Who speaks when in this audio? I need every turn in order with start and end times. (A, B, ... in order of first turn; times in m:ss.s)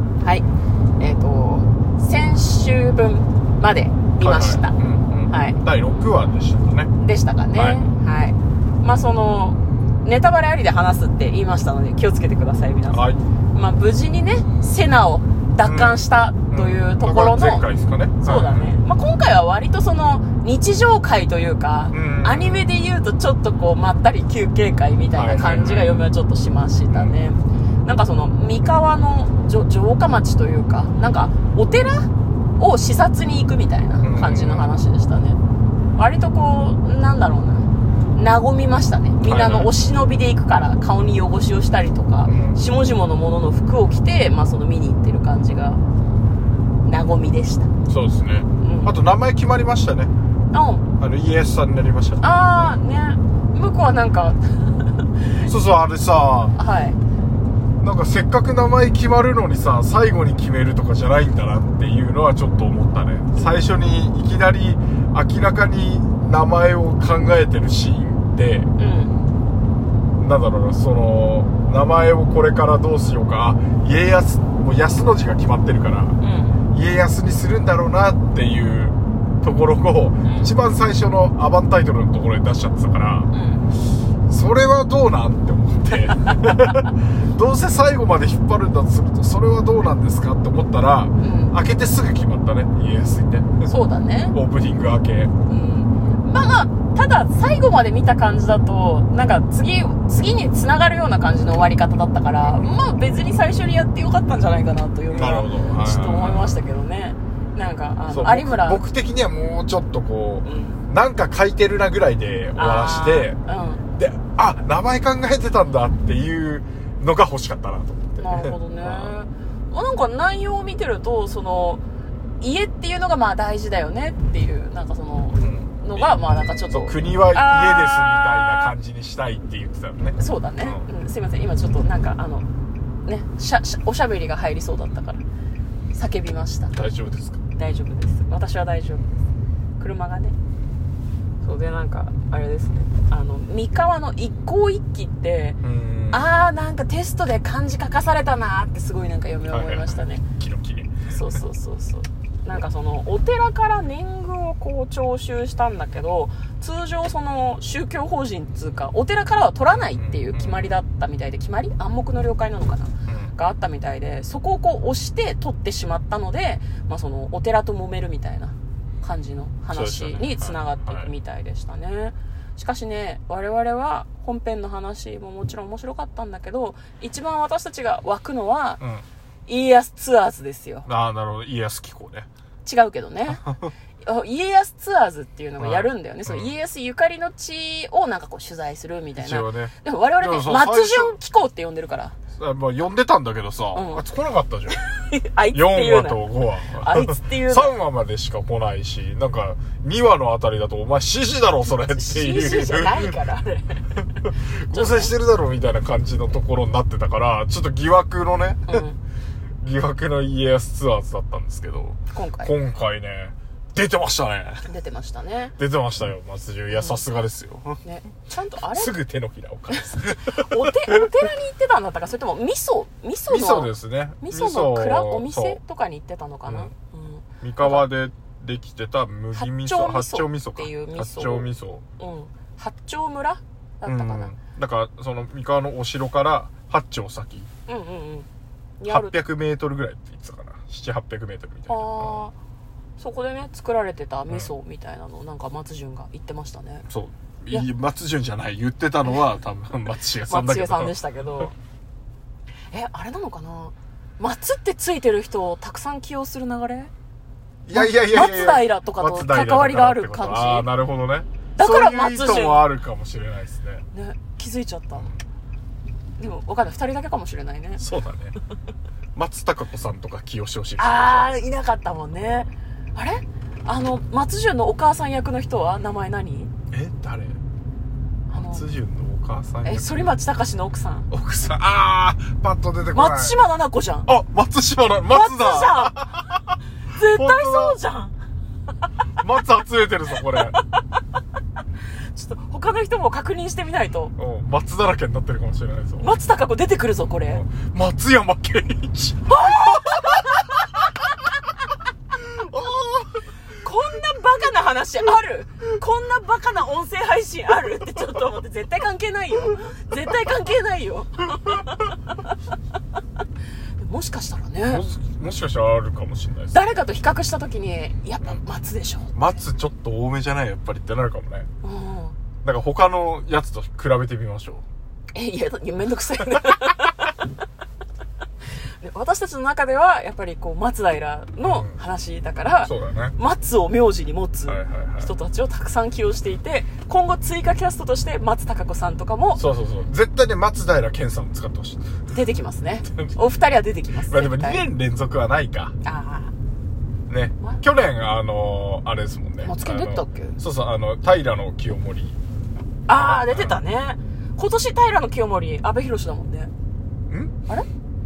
0:01.0-0:04.7 A
0:04.2-0:06.9 B
0:05.3-0:05.6 A
0:07.0-0:17.7 A
0:07.5-0:07.8 B
0:12.9-0:13.2 B
0:15.6-0:18.8 B
0:18.2-0:35.4 A
0:21.9-0:22.7 B
0:25.1-0:26.1 B
0:26.9-0:27.2 B
0:34.0-0:34.8 B
0:36.0-0:45.8 A
0:39.2-0:39.7 B
0:42.2-0:42.6 B
0:46.8-0:47.7 A
0:47.9-0:50.1 B
0:48.6-0:48.9 A
0:50.5-0:50.8 A
0:51.0-0:52.8 B
0:52.2-0:55.5 A
0:55.4-0:56.6 B
0:56.6-0:57.0 A
0:57.8-1:08.7 B
1:08.8-1:09.1 A
1:10.2-1:16.2 B
1:16.2-1:16.6 A
1:16.7-1:23.3 B
1:20.2-1:20.5 A
1:23.3-1:23.7 A
1:24.3-1:33.7 B
1:31.2-1:31.5 A
1:33.6-1:34.3 A
1:34.3-1:35.3 B
1:35.5-1:48.8 A
1:42.4-1:42.8 B
1:45.1-1:46.6 B
1:48.1-1:53.4 B
1:50.4-1:50.8 A
1:52.6-1:53.8 A
1:53.9-1:59.2 B
1:58.2-2:01.8 A
2:02.4-2:08.7 A
2:05.4-2:06.2 B
2:06.7-2:10.8 B
2:10.2-2:12.5 A
2:13.0-2:15.2 A
2:15.9-2:16.7 A
2:16.7-2:17.4 B
2:17.6-2:19.2 A
2:19.8-2:20.4 A
2:21.4-2:25.6 A
2:25.6-2:26.3 B
2:26.1-2:30.2 A
2:29.5-2:31.4 B
2:31.1-2:58.8 A
2:39.7-2:40.7 B
2:43.0-2:43.3 B
2:49.7-2:51.1 B
2:58.8-2:59.1 B
2:59.5-3:00.9 A
3:00.8-3:02.3 B
3:02.6-3:03.4 A
3:03.3-3:03.7 B
3:04.0-3:12.2 A
3:05.6-3:06.5 B
3:09.2-3:11.2 B
3:12.4-3:14.8 B
3:13.7-3:14.0 A
3:14.8-3:17.7 A
3:15.5-3:23.2 B
3:21.7-3:24.0 A
3:24.0-3:28.8 B
3:24.7-3:25.1 A
3:28.7-3:29.0 A
3:29.6-3:34.7 B
3:32.1-3:32.5 A
3:34.7-3:35.5 A
3:35.6-3:37.8 B
3:36.7-3:37.0 A
3:37.8-3:39.0 A
3:38.7-3:41.1 B
3:39.8-3:47.9 A
3:43.3-3:45.6 B
3:46.5-3:46.7 B
3:47.4-3:51.8 B
3:49.3-3:54.3 A
3:53.8-3:57.5 B
3:57.7-3:58.3 A
3:58.8-3:59.2 A
3:58.8-4:02.2 B
4:01.7-4:02.3 A
4:03.0-4:06.9 A
4:06.9-4:11.0 B
4:10.3-4:11.5 A
4:12.7-4:16.9 A
4:17.6-4:23.8 B
4:17.7-4:20.7 A
4:21.6-4:22.7 A
4:23.9-4:25.1 A
4:26.2-4:27.8 A
4:27.8-4:28.3 B
4:29.1-4:31.5 B
4:30.8-4:36.5 A
4:36.7-4:37.4 B
4:38.3-4:38.6 A
4:38.3-4:40.1 B
4:39.6-4:41.1 A
4:41.1-4:43.4 B
4:42.9-4:44.1 A
4:44.0-4:46.4 B
4:45.1-4:45.9 A
4:46.9-4:48.1 A
4:47.0-4:47.8 B
4:49.2-4:50.6 B
4:50.2-4:50.6 A
4:52.1-4:54.1 A
4:54.2-4:56.1 B
4:56.0-4:57.4 A
4:57.2-5:00.4 B
4:59.3-5:00.5 A
5:02.2-5:03.2 B
5:03.6-5:12.3 A
5:13.8-5:14.8 A
5:14.7-5:16.7 B
5:16.5-5:19.1 A
5:19.1-5:21.5 B
5:21.6-5:22.2 A
5:22.4-5:24.6 B
5:25.1-5:27.2 A
5:28.8-5:39.4 A
5:31.4-5:31.8 B
5:32.6-5:33.2 B
5:34.4-5:35.1 B
5:39.4-5:41.9 B
5:42.1-5:44.6 A
5:44.1-5:45.7 B
5:45.8-5:46.3 A
5:47.1-5:52.2 B
5:49.4-5:50.4 A
5:52.9-5:56.5 A
5:52.9-5:53.6 B
5:57.1-5:57.3 B